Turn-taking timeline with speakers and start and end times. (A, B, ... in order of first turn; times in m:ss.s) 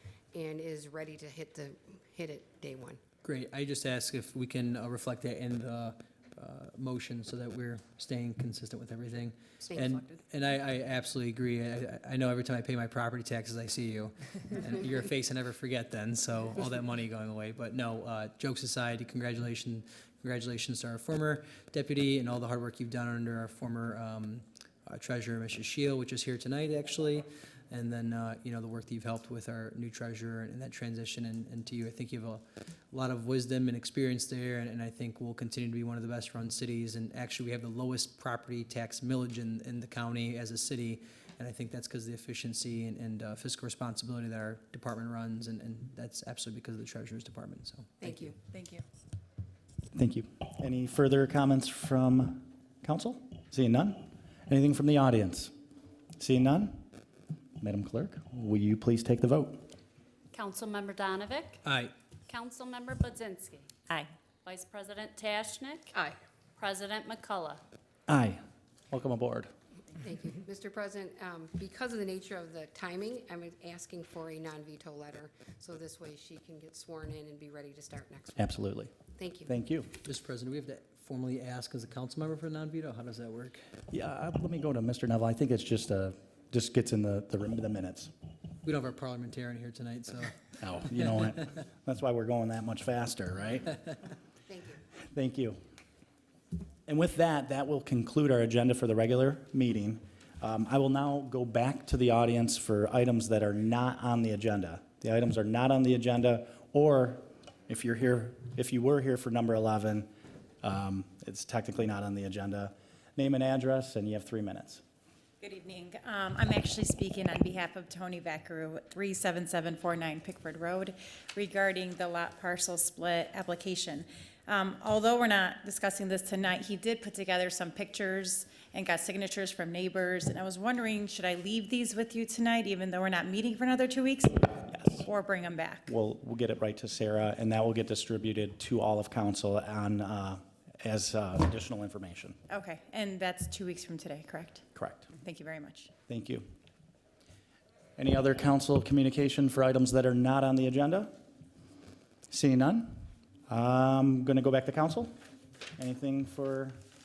0:00.3-0:03.0 A
0:03.2-0:48.1 B
0:48.0-0:48.3 A
0:48.4-0:48.8 C
0:49.9-0:55.5 D
0:56.2-0:56.8 D
0:57.6-0:59.6 D
1:00.3-1:01.6 E
1:01.6-1:01.9 B
1:02.3-1:03.7 E
1:04.4-1:05.9 E
1:06.6-1:07.6 E
1:08.1-1:09.5 D
1:10.0-1:18.6 A
1:18.4-1:18.9 D
1:19.2-1:19.5 A
1:19.5-1:19.9 D
1:20.0-1:23.6 B
1:23.9-1:28.1 D
1:28.6-1:30.3 B
1:30.6-1:33.8 D
1:34.5-1:34.8 A
1:35.1-1:35.6 D
1:36.9-1:50.1 D
1:50.6-1:54.8 D
1:55.4-2:15.9 C
2:14.7-2:15.0 D
2:15.9-2:22.4 D
2:22.5-2:25.9 C
2:24.8-2:25.0 D
2:26.1-2:26.4 D
2:28.0-2:31.1 D
2:32.3-2:35.1 D
2:35.8-2:36.8 D